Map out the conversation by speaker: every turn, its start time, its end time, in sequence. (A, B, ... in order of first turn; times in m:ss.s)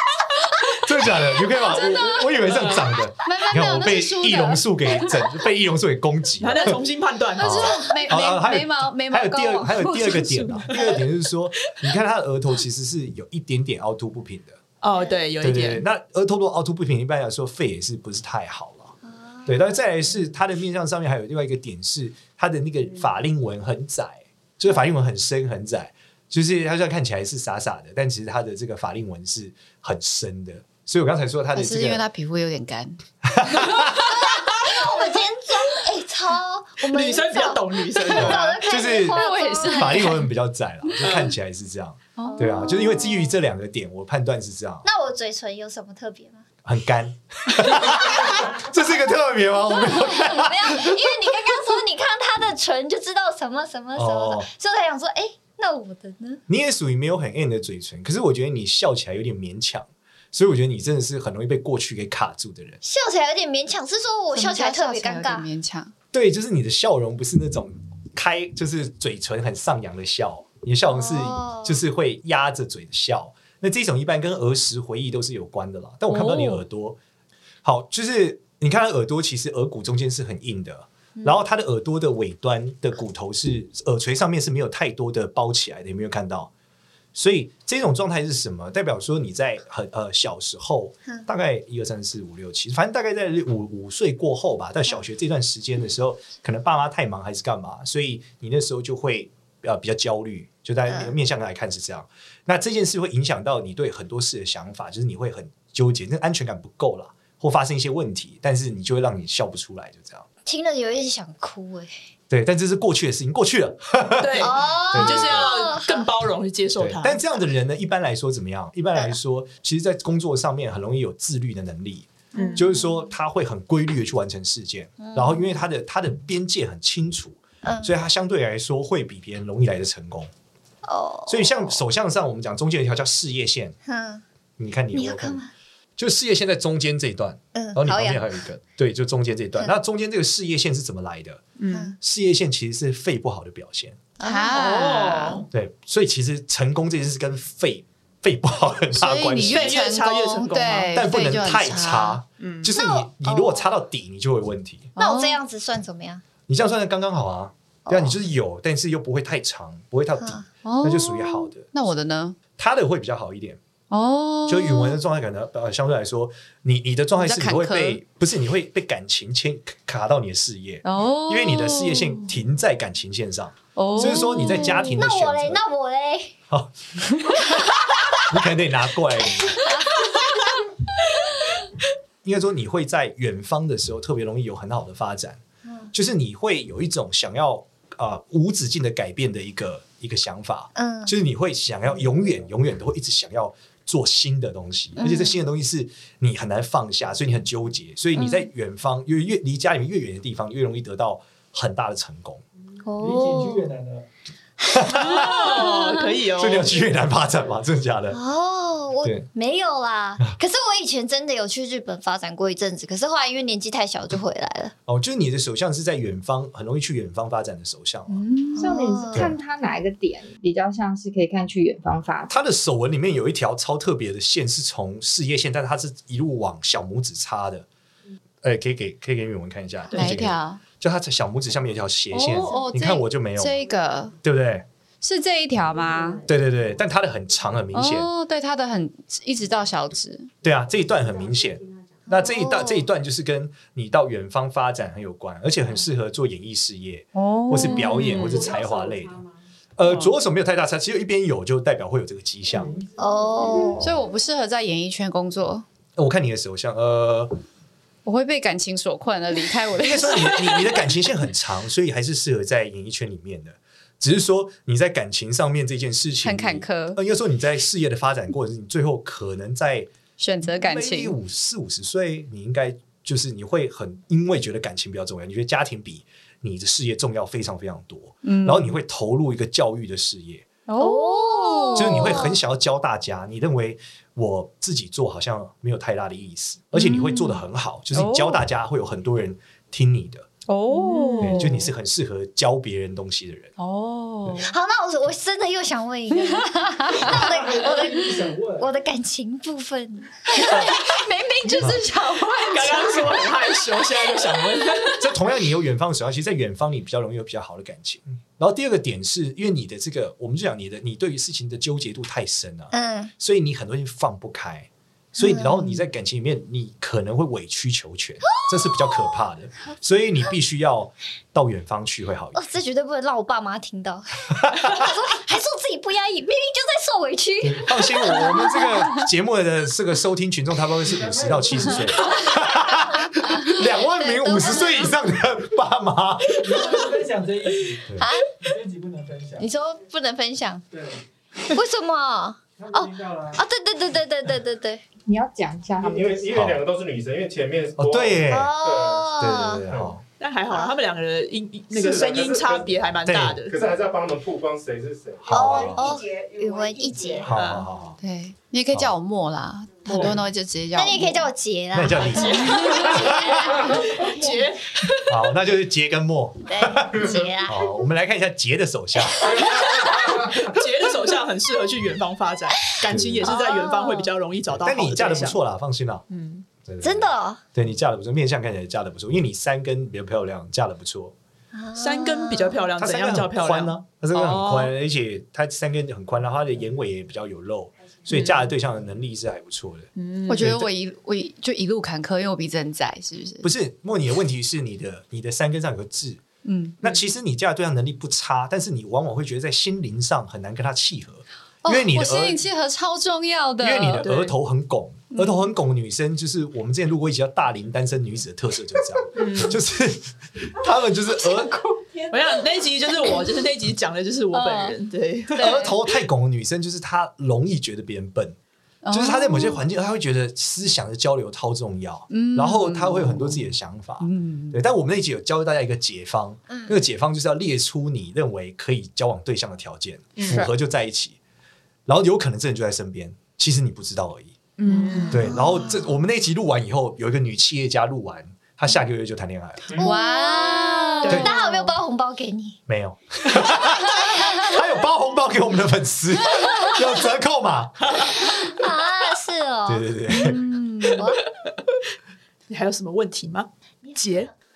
0:00.8-0:06.8 A
0:01.7-0:02.5 B
0:02.4-0:02.9 C
0:03.2-0:04.7 B
0:06.4-0:07.8 C
0:07.4-0:10.7 B
0:07.4-0:14.6 A
0:14.8-0:15.8 C
0:15.4-0:18.9 A
0:19.0-0:19.8 D
0:19.5-0:32.0 A
0:31.5-0:33.0 B
0:33.2-0:34.1 A
0:34.1-0:40.1 D
0:36.9-0:38.6 C
0:38.2-0:44.9 A
0:38.9-0:40.3 B
0:41.0-0:41.3 C
0:42.2-0:43.0 B
0:42.3-0:43.2 D
0:44.8-0:46.5 D
0:46.6-0:51.4 A
0:47.8-0:48.5 D
0:49.9-0:56.4 D
0:54.0-0:54.5 A
0:56.5-1:02.8 A
1:02.8-1:05.5 D
1:04.3-1:05.9 B
1:06.1-1:17.0 A
1:10.9-1:11.8 D
1:16.1-1:16.6 B
1:17.6-1:26.5 A
1:27.2-1:50.3 A
1:40.9-1:41.1 D
1:50.5-1:51.9 D
1:52.3-1:55.5 A
1:54.2-1:57.2 C
1:54.4-1:56.0 D
1:56.8-2:10.3 A
2:02.4-2:02.7 C
2:02.4-2:02.7 D
2:05.0-2:05.5 D
2:07.6-2:07.9 D
2:10.8-2:11.8 D
2:11.3-2:13.8 A
2:13.9-2:14.2 D
2:14.6-2:15.4 A
2:14.9-2:15.5 D
2:16.0-2:21.4 A
2:17.6-2:18.3 D
2:21.6-2:22.0 C
2:21.7-2:22.0 D
2:22.0-2:24.0 A
2:24.2-2:24.7 D
2:24.2-2:25.4 B
2:24.5-2:25.5 C
2:25.5-2:29.9 A
2:28.9-2:32.2 B
2:29.4-2:31.0 C
2:30.9-2:34.9 A
2:32.4-2:32.7 C
2:32.7-2:33.7 D
2:35.0-2:35.4 B
2:35.0-2:36.2 D
2:36.5-2:41.7 A
2:37.9-2:38.2 D
2:40.2-2:40.5 D
2:40.6-2:42.4 B
2:42.6-2:43.6 A
2:43.9-2:45.0 B
2:44.5-2:55.6 A
2:47.2-2:48.0 B
2:50.8-2:52.3 B
2:53.8-2:55.0 B
2:54.1-2:56.4 D
2:56.5-2:57.4 A
2:57.4-2:58.2 D
2:58.1-2:59.7 A
2:59.3-3:00.1 D
3:02.2-3:05.4 A
3:05.6-3:05.9 D
3:05.9-3:22.4 A
3:10.8-3:11.1 D
3:15.0-3:15.4 D
3:18.2-3:18.4 D
3:22.8-3:23.8 D
3:24.6-3:25.5 A
3:24.9-3:26.8 C
3:25.7-3:26.0 B
3:26.4-3:28.2 A
3:28.1-3:34.7 D
3:29.0-3:29.3 A
3:34.9-3:38.2 A
3:38.1-3:38.8 B
3:38.6-3:39.3 D
3:38.6-3:42.3 E
3:42.3-3:47.7 A
3:48.4-3:53.6 A
3:49.9-3:50.2 C
3:49.9-3:50.6 B
3:52.1-3:54.2 B
3:54.2-3:54.7 A
3:55.0-3:56.2 B
3:56.2-3:58.1 A
3:57.7-4:00.3 B
4:00.4-4:09.3 A
4:02.1-4:02.9 D
4:07.2-4:08.2 B
4:08.0-4:08.5 C
4:09.8-4:12.8 A
4:09.9-4:10.1 C
4:13.0-4:13.9 D
4:13.8-4:15.6 B
4:16.0-4:17.4 A
4:18.0-4:20.7 B
4:19.8-4:29.9 A
4:26.2-4:27.0 B
4:30.2-4:31.2 B
4:30.5-4:40.5 A
4:38.2-4:38.8 B
4:40.7-4:42.3 B
4:40.8-4:42.4 D
4:41.8-4:50.3 A
4:46.7-4:47.4 B
4:47.9-4:48.4 B
4:50.5-4:51.7 B
4:50.7-4:51.5 C
4:51.2-4:53.5 A
4:53.6-4:54.5 B
4:54.4-5:00.2 D
4:56.8-4:58.2 B
5:00.3-5:03.4 B
5:00.4-5:00.7 A
5:02.4-5:05.1 C
5:04.2-5:04.9 B
5:04.9-5:22.4 A
5:12.7-5:13.1 D
5:15.2-5:15.8 D
5:18.3-5:19.1 D
5:22.3-5:28.6 D
5:24.4-5:24.8 A
5:27.4-5:37.1 A
5:32.1-5:35.0 D
5:36.5-5:37.0 D
5:37.7-5:38.1 A
5:37.9-5:38.4 D
5:39.4-5:40.7 D
5:41.5-5:44.8 D
5:45.1-5:46.3 E
5:45.8-5:50.0 F
5:46.3-5:46.6 A
5:47.8-5:48.5 A
5:48.3-5:49.6 D
5:49.2-5:50.0 A
5:50.2-5:53.6 C
5:51.7-5:52.9 F
5:53.0-5:53.4 A
5:53.5-5:55.5 F
5:55.3-5:56.1 A
5:55.3-5:57.3 D
5:57.2-5:58.0 A
5:57.3-5:57.7 C
5:58.0-6:01.3 B
5:59.9-6:00.2 C
6:00.7-6:03.9 D
6:01.7-6:03.6 A
6:02.1-6:05.2 C
6:02.6-6:02.9 B
6:05.0-6:09.5 A
6:06.5-6:07.7 D
6:09.5-6:10.3 F
6:09.7-6:15.4 C
6:12.9-6:13.3 A
6:13.2-6:14.1 D
6:14.5-6:16.0 A
6:16.1-6:16.5 C
6:16.6-6:21.1 A
6:16.8-6:17.4 D
6:21.5-6:22.6 D
6:21.8-6:24.7 C
6:22.8-6:30.7 A
6:28.1-6:28.5 C
6:30.0-6:30.6 C
6:30.3-6:33.5 B
6:33.4-6:36.2 A
6:36.4-6:36.8 B
6:36.8-6:42.4 A
6:41.6-6:44.0 B
6:43.6-6:51.7 A
6:44.0-6:44.4 C
6:45.1-6:45.5 B
6:49.2-6:49.6 C
6:52.1-6:55.6 C
6:54.3-6:54.8 B
6:55.4-6:55.8 B
6:55.4-6:58.4 A
6:58.8-6:59.6 B
6:58.9-7:11.2 A
7:02.1-7:04.6 B
7:10.2-7:10.5 C
7:11.9-7:14.4 A
7:14.6-7:15.2 B
7:14.7-7:15.4 C
7:15.1-7:19.8 A
7:15.2-7:15.9 D
7:19.8-7:22.6 D
7:19.8-7:21.7 B
7:21.1-7:21.4 A
7:22.7-7:28.0 A
7:28.1-7:29.9 D
7:29.7-7:30.4 A
7:30.1-7:31.0 B
7:31.0-7:31.2 D
7:32.5-7:34.3 C